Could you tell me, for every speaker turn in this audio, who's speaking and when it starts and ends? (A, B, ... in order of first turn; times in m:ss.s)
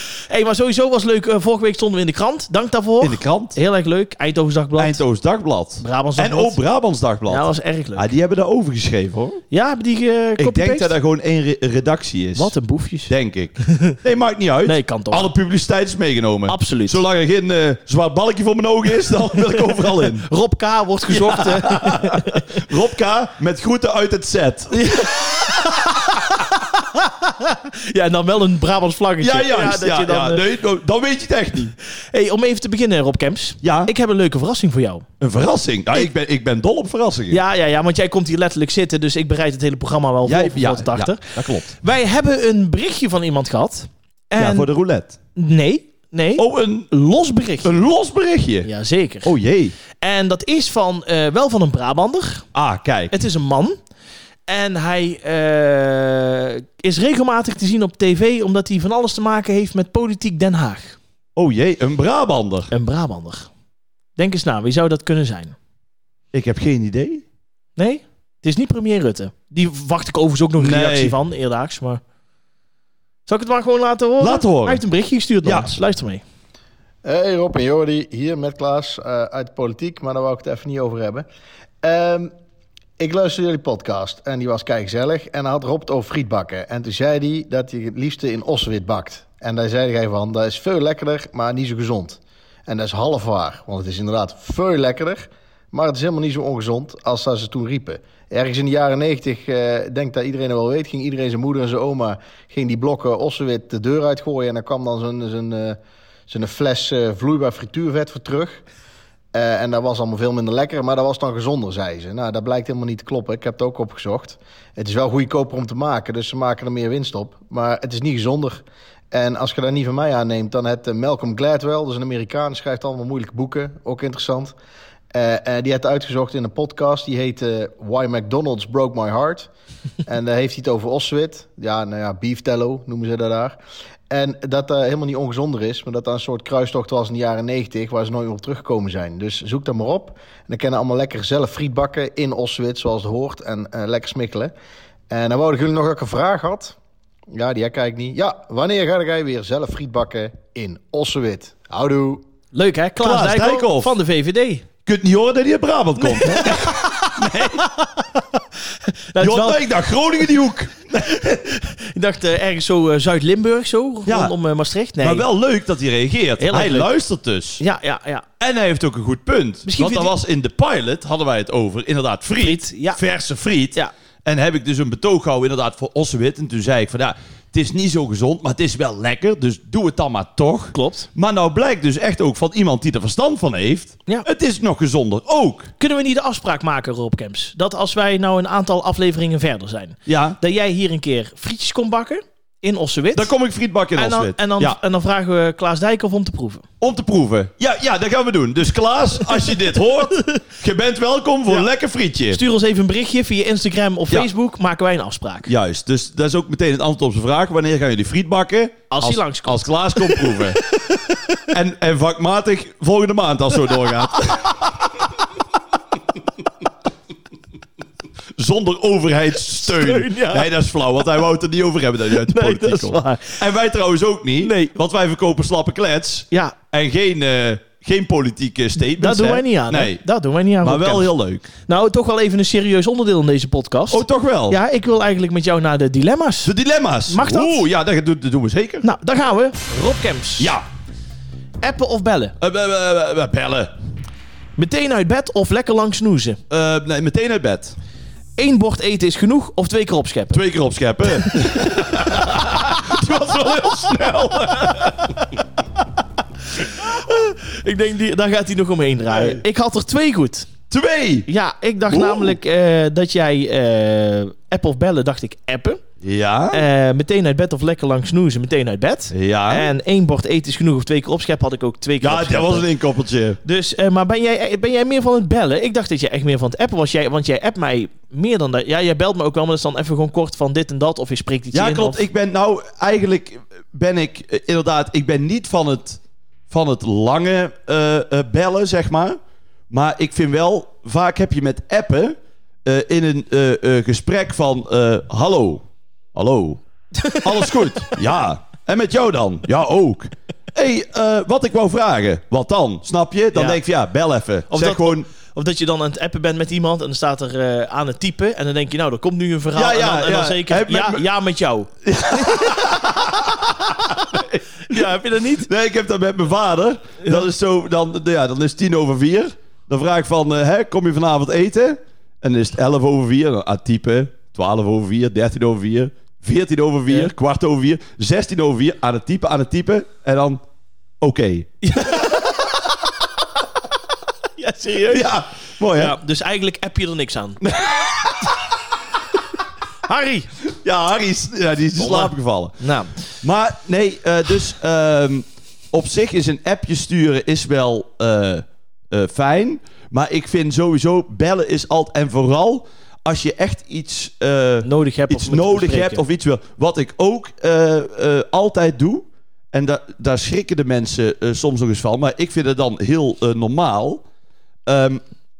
0:00.3-0:05.0 A
0:03.0-0:03.6 B
0:04.8-0:09.4 B
0:05.8-0:06.6 A
0:07.3-0:08.1 A
0:09.5-0:10.9 A
0:10.4-0:12.5 B
0:12.3-0:13.1 A
0:13.1-0:20.2 B
0:13.7-0:14.0 A
0:14.6-0:15.3 A
0:16.5-0:17.0 A
0:19.3-0:22.6 A
0:21.1-0:25.5 B
0:24.7-0:30.4 A
0:29.2-0:31.7 B
0:32.1-0:35.0 A
0:33.6-0:33.9 B
0:35.2-0:37.4 B
0:37.3-0:44.7 A
0:40.2-0:41.7 B
0:44.4-0:45.2 B
0:45.4-0:47.8 A
0:46.4-0:46.9 B
0:47.6-0:48.7 B
0:48.6-0:49.3 A
0:49.2-0:49.8 B
0:50.0-0:52.4 A
0:52.5-0:53.2 B
0:53.1-0:53.8 A
0:54.5-1:01.0 A
1:01.4-1:02.7 B
1:02.7-1:03.5 A
1:04.2-1:05.5 A
1:06.3-1:07.2 B
1:07.8-1:12.0 A
1:10.6-1:11.2 B
1:13.3-1:16.2 A
1:14.2-1:14.8 B
1:15.4-1:15.8 B
1:17.0-1:21.2 C
1:21.8-1:22.3 C
1:23.0-1:48.6 C
1:49.3-2:04.5 C
2:05.1-2:09.5 C
2:10.0-2:13.6 C
2:14.1-2:24.5 C
2:25.1-2:26.8 C
2:27.3-2:32.2 C
2:32.5-2:34.6 A
2:33.0-2:33.9 B
2:34.8-2:37.6 B
2:36.0-2:39.7 A
2:39.2-2:41.1 B
2:41.0-2:45.2 A
2:44.0-2:44.3 B
2:45.0-2:47.6 B
2:46.4-2:46.9 A
2:47.6-2:48.2 A
2:48.4-3:05.7 B
2:49.6-2:50.1 A
2:52.4-2:53.0 A
3:00.7-3:01.1 A
3:05.8-3:13.3 A
3:10.0-3:10.4 B
3:13.1-3:14.8 B
3:13.9-3:16.6 A
3:16.8-3:22.4 B
3:20.1-3:20.4 A
3:22.3-3:25.5 A
3:25.5-3:30.6 B
3:28.9-3:31.4 A
3:31.5-3:34.7 B
3:38.4-3:50.0 B
3:39.6-3:40.5 A
3:42.2-3:43.4 A
3:44.4-3:44.8 A
3:48.8-3:51.1 A
3:50.6-3:51.4 B
3:51.6-3:56.5 A
3:53.9-3:54.6 B
3:56.4-3:58.9 B
3:57.1-3:57.6 A
3:58.8-4:00.5 A
4:00.4-4:00.6 B
4:01.6-4:02.3 A
4:02.4-4:03.7 B
4:04.6-4:06.4 A
4:06.5-4:07.8 B
4:08.4-4:10.4 A
4:10.3-4:15.3 B
4:11.1-4:12.5 A
4:16.7-4:20.5 A
4:19.1-4:19.4 B
4:20.7-4:21.3 B
4:21.3-4:25.8 A
4:21.9-4:22.4 B
4:26.0-4:26.6 B
4:26.5-4:32.6 A
4:29.1-4:29.7 B
4:32.0-4:33.4 B
4:33.4-4:42.0 A
4:41.5-4:49.2 B
4:49.7-4:56.6 B
4:56.9-4:57.9 A
4:57.2-5:05.0 B
5:03.3-5:03.6 A
5:04.5-5:13.4 A
5:09.5-5:11.1 B
5:11.8-5:13.4 B
5:13.9-5:30.4 B
5:14.6-5:15.5 A
5:17.0-5:17.3 A
5:31.0-5:32.0 B
5:31.6-5:32.2 A
5:34.4-5:35.1 A
5:34.9-5:36.0 B
5:35.7-5:37.4 A
5:37.4-5:38.3 B
5:39.9-5:40.3 A
5:40.5-5:42.6 B
5:41.8-5:42.9 A
5:43.2-6:04.0 B
5:54.6-5:56.0 A
6:04.7-6:05.0 B